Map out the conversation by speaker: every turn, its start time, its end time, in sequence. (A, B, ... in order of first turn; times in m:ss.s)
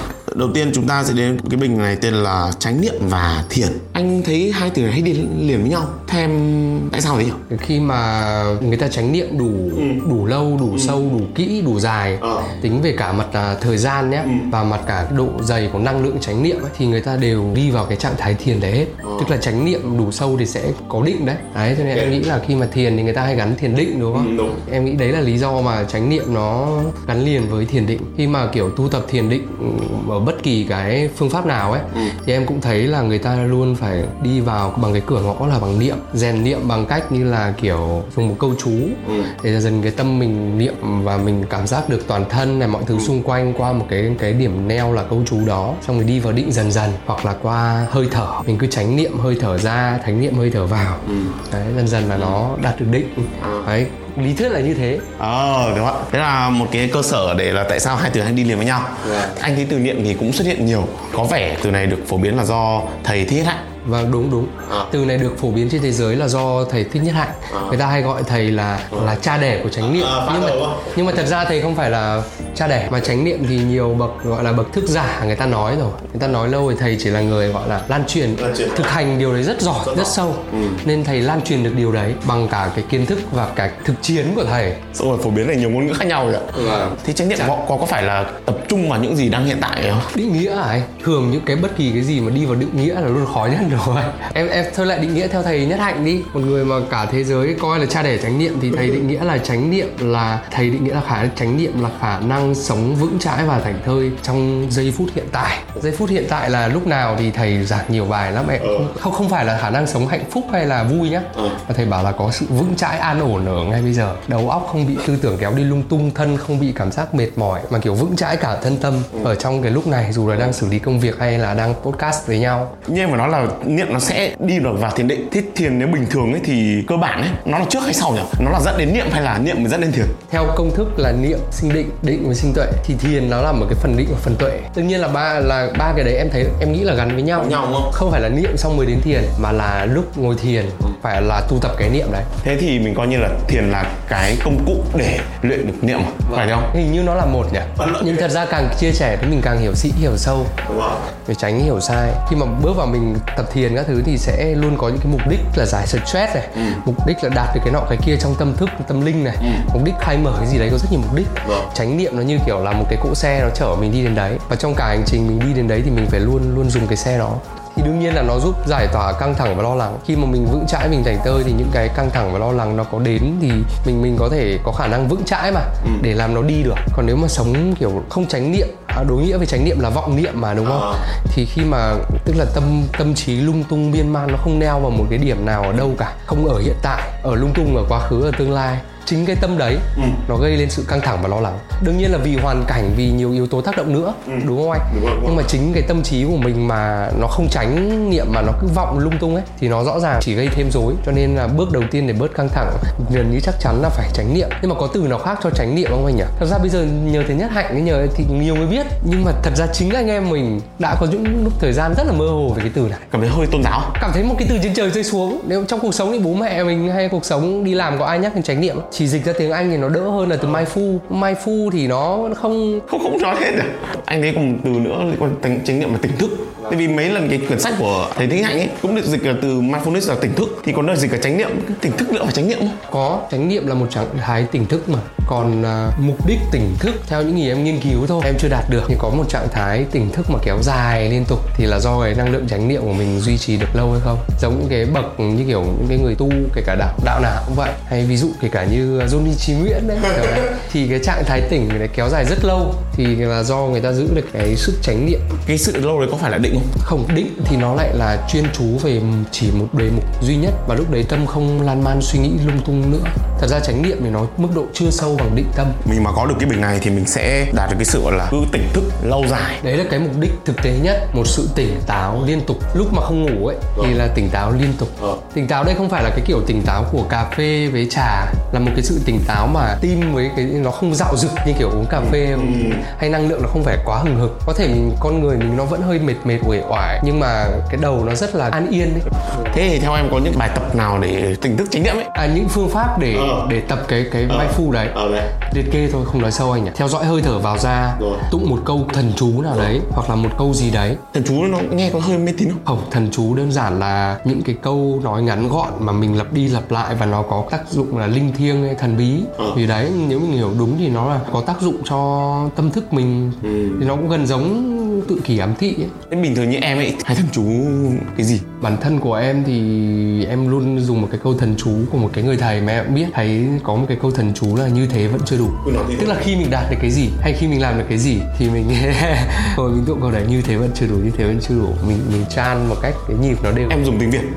0:00.3-0:07.4 A
0:07.5-0:55.1 B
0:10.7-0:11.0 A
0:12.2-0:12.5 A
0:14.2-0:14.5 A
0:19.0-0:19.3 A
0:24.1-0:24.6 A
0:39.0-0:39.3 A
0:52.1-0:52.4 A
0:53.4-0:53.7 A
0:55.2-1:03.6 A
0:59.0-0:59.4 B
1:03.8-1:24.8 B
1:07.5-1:07.8 A
1:09.8-1:11.2 A
1:18.4-1:18.9 A
1:19.8-1:20.8 A
1:24.9-1:30.1 A
1:26.5-1:27.5 B
1:30.1-2:02.7 B
1:48.6-1:48.9 A
2:02.8-2:10.2 A
2:10.3-2:22.3 B
2:17.4-2:17.9 A
2:22.4-2:26.7 A
2:26.3-2:30.5 B
2:27.8-2:28.2 A
2:30.6-2:31.0 A
2:31.3-3:33.1 B
3:00.6-3:01.0 A
3:14.2-3:15.5 A
3:33.1-3:33.9 A
3:34.0-3:42.9 B
3:42.9-3:52.8 A
3:52.9-4:15.3 B
4:15.4-4:16.7 A
4:16.8-4:25.8 B
4:25.8-4:29.6 A
4:29.6-4:49.1 B
4:42.1-4:42.8 A
4:49.4-4:52.1 A
4:52.1-5:01.0 B
4:53.1-4:53.5 A
4:54.3-4:55.3 A
5:01.1-5:02.6 A
5:02.6-5:15.9 B
5:13.4-5:13.8 A
5:16.1-5:18.5 A
5:18.6-5:33.8 B
5:25.6-5:26.2 A
5:33.7-5:34.3 A